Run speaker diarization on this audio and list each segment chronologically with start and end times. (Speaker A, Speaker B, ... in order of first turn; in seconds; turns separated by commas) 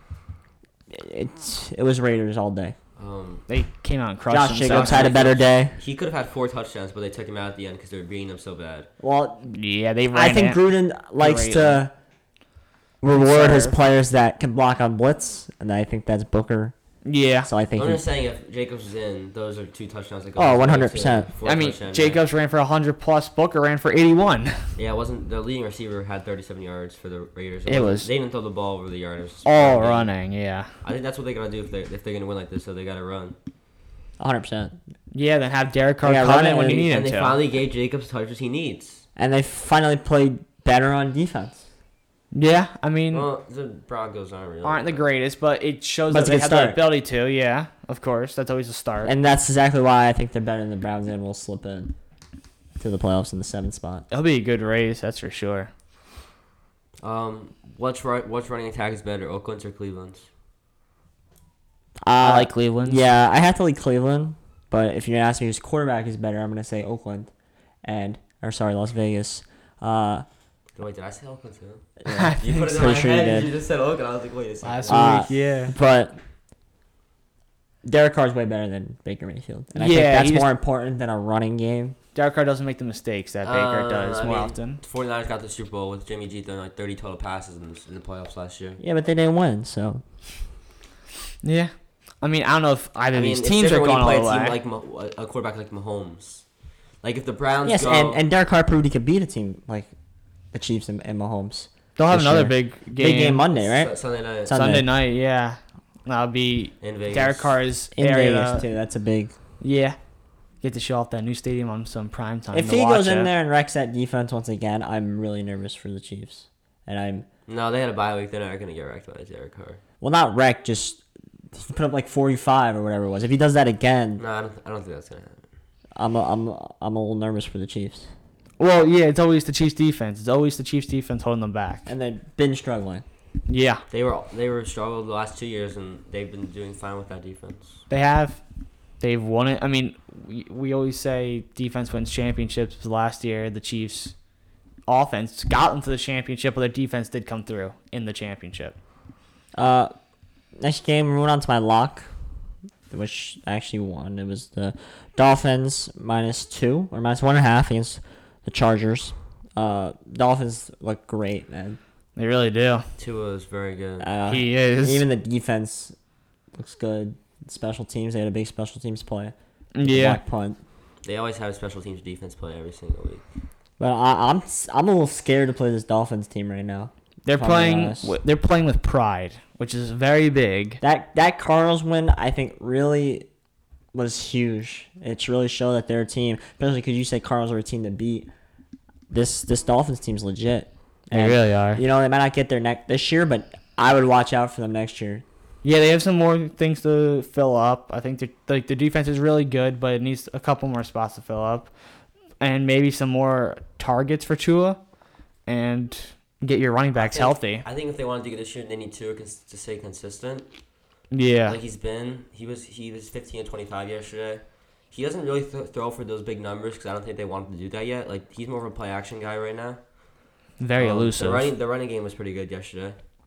Speaker A: 0.9-2.7, Speaker B: 3.0-3.4, Speaker C: 3.5-5.2, Speaker A: 4.3-5.8, Speaker B: 4.6-8.9, Speaker A: 9.0-9.5, Speaker C: 9.5-10.6, Speaker A: 10.1-11.9, Speaker C: 11.2-11.8, Speaker A: 13.0-16.7, Speaker C: 13.1-13.8, Speaker C: 17.0-17.5, Speaker A: 17.4-18.0, Speaker B: 17.8-22.2, Speaker A: 20.4-21.3, Speaker C: 21.4-24.6, Speaker B: 24.8-30.1, Speaker C: 27.7-28.1, Speaker C: 29.4-30.7, Speaker B: 30.8-33.4, Speaker A: 34.2-34.8, Speaker C: 35.1-37.4, Speaker A: 36.0-36.9, Speaker B: 36.7-39.0, Speaker A: 39.2-41.6, Speaker C: 42.3-43.3, Speaker B: 43.1-45.0, Speaker C: 44.6-49.1, Speaker A: 46.1-46.8, Speaker A: 49.0-51.9, Speaker A: 52.8-54.0, Speaker C: 54.1-55.7, Speaker B: 57.0-60.3, Speaker A: 62.0-67.3, Speaker C: 62.2-63.0, Speaker A: 67.8-70.2, Speaker B: 70.8-71.8, Speaker A: 72.0-73.5, Speaker C: 72.1-72.7, Speaker B: 72.4-75.2, Speaker C: 74.6-75.7, Speaker A: 74.9-76.2, Speaker A: 77.8-82.0, Speaker C: 79.7-80.5, Speaker C: 82.1-84.8, Speaker B: 83.4-88.8, Speaker A: 88.8-90.0, Speaker C: 91.4-94.6, Speaker B: 93.1-96.5, Speaker B: 97.0-98.2, Speaker A: 97.6-99.9, Speaker A: 100.5-104.9, Speaker C: 102.0-103.4, Speaker B: 103.5-104.6, Speaker C: 104.5-108.7, Speaker B: 106.8-107.6, Speaker A: 107.9-109.3, Speaker C: 109.6-110.0, Speaker C: 110.6-113.3, Speaker A: 112.5-117.3, Speaker B: 117.5-119.8, Speaker A: 120.0-121.0, Speaker A: 121.5-124.2, Speaker B: 124.2-125.5, Speaker A: 126.0-128.1, Speaker C: 128.6-131.9, Speaker A: 131.8-133.0, Speaker C: 133.5-133.8, Speaker B: 133.9-137.8, Speaker C: 137.9-138.4, Speaker C: 139.0-144.1, Speaker C: 144.9-148.8, Speaker A: 149.5-149.9, Speaker A: 150.6-152.1, Speaker A: 152.9-161.8, Speaker C: 162.2-162.9, Speaker B: 163.0-164.1, Speaker A: 164.0-165.9, Speaker C: 164.3-165.0, Speaker A: 166.5-170.6, Speaker C: 169.7-170.2, Speaker B: 171.0-173.2, Speaker A: 173.8-178.1, Speaker C: 177.2-180.8, Speaker A: 180.8-183.3, Speaker A: 183.9-188.3, Speaker A: 189.1-195.2, Speaker C: 191.1-191.8, Speaker C: 195.6-201.7, Speaker C: 202.4-204.8, Speaker C: 205.4-207.6, Speaker B: 206.9-210.5, Speaker C: 211.1-211.6, Speaker B: 211.5-219.8, Speaker C: 220.6-221.5, Speaker B: 220.8-223.0